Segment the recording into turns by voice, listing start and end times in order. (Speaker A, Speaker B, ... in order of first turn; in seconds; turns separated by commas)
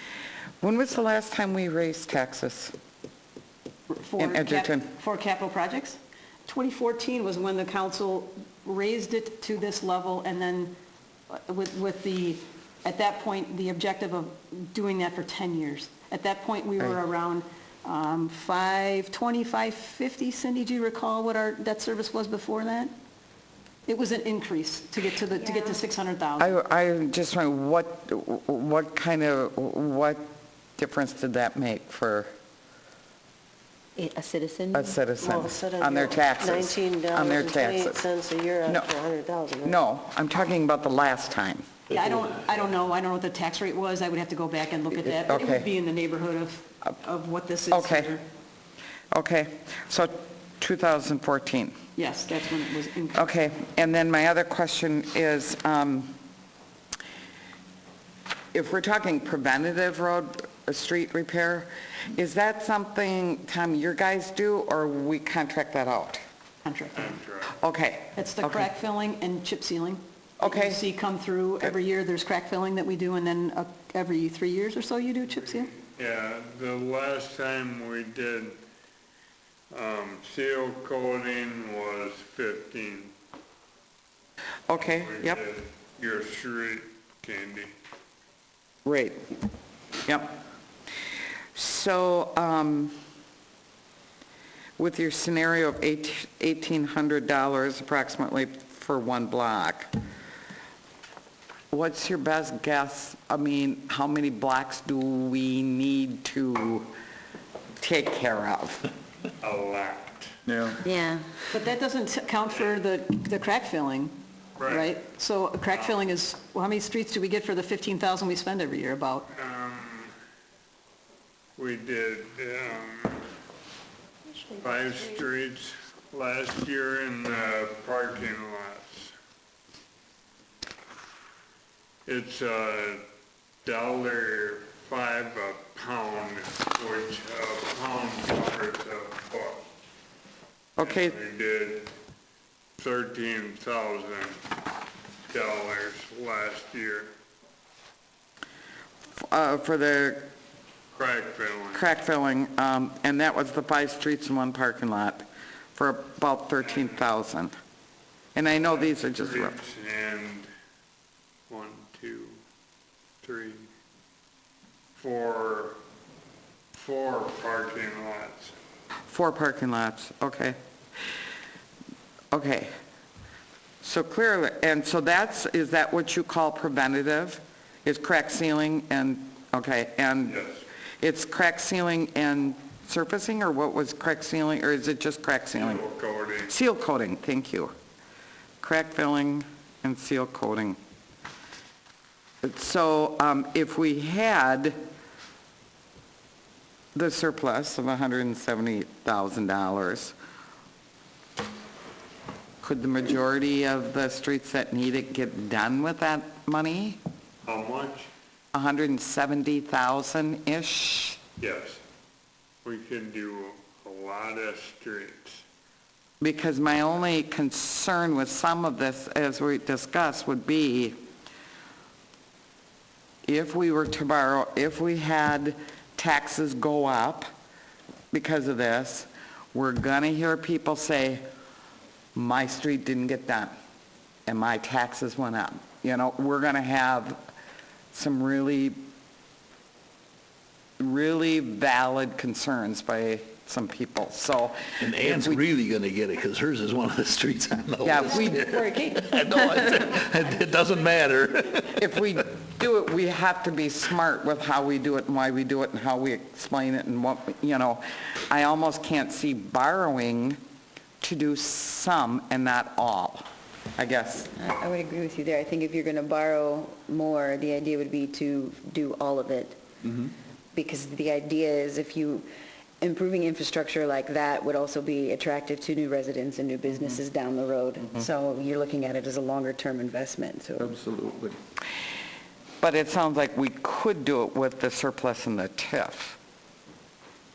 Speaker A: 0.6-2.7, Speaker B: 3.9-10.7, Speaker A: 4.2-4.8, Speaker B: 11.3-22.9, Speaker B: 23.9-26.6, Speaker A: 26.4-30.2, Speaker A: 30.8-32.3, Speaker C: 34.0-35.0, Speaker A: 34.7-38.0, Speaker D: 35.2-39.8, Speaker A: 38.6-38.9, Speaker A: 39.6-41.6, Speaker B: 41.9-48.2, Speaker A: 45.0-45.7, Speaker A: 47.7-48.1, Speaker A: 49.1-51.8, Speaker B: 52.0-53.3, Speaker A: 53.1-56.1, Speaker A: 58.5-66.2, Speaker B: 66.6-67.2, Speaker E: 66.9-67.6, Speaker A: 67.6-68.7, Speaker B: 68.2-75.7, Speaker A: 70.4-70.8, Speaker E: 75.6-78.6, Speaker E: 79.7-83.1, Speaker A: 84.7-85.4, Speaker E: 84.8-87.7, Speaker A: 88.8-89.2, Speaker A: 90.0-90.4, Speaker A: 91.5-92.9, Speaker A: 94.8-99.9, Speaker A: 101.7-106.9, Speaker A: 107.8-108.9, Speaker E: 109.4-110.3, Speaker C: 110.8-111.3, Speaker B: 111.5-114.1, Speaker E: 114.6-114.9, Speaker B: 114.7-119.2, Speaker E: 115.7-116.0, Speaker E: 119.3-120.1, Speaker E: 121.6-123.3, Speaker E: 124.5-129.1, Speaker E: 132.1-133.0, Speaker E: 133.6-139.6, Speaker A: 140.8-141.1, Speaker E: 140.8-141.9, Speaker E: 142.8-144.4, Speaker E: 145.3-147.1, Speaker A: 149.3-150.3, Speaker E: 150.9-151.9, Speaker A: 151.7-157.5, Speaker E: 156.6-157.1, Speaker A: 158.3-159.5, Speaker E: 158.7-160.5, Speaker E: 161.5-162.4, Speaker E: 163.2-163.7, Speaker E: 165.0-165.8, Speaker E: 166.7-168.6, Speaker A: 169.1-170.6, Speaker A: 172.3-172.7, Speaker A: 173.8-180.4, Speaker E: 180.2-180.6, Speaker A: 181.0-185.8, Speaker E: 185.5-186.5, Speaker A: 186.5-187.7, Speaker A: 188.6-190.8, Speaker A: 192.4-194.8, Speaker A: 196.9-200.1, Speaker A: 202.6-207.0, Speaker E: 207.4-208.1, Speaker A: 208.5-211.2, Speaker E: 211.4-211.8, Speaker E: 212.6-215.4, Speaker A: 216.2-221.0, Speaker A: 223.2-227.3, Speaker A: 228.1-231.2, Speaker A: 232.1-233.5, Speaker A: 234.3-237.2, Speaker A: 237.9-238.8, Speaker A: 240.8-245.4, Speaker F: 244.8-251.8, Speaker A: 247.8-248.5, Speaker A: 251.8-260.4, Speaker A: 261.0-263.2, Speaker A: 263.8-264.3, Speaker C: 264.3-269.6, Speaker C: 270.5-272.2, Speaker C: 272.8-280.8, Speaker A: 282.6-286.2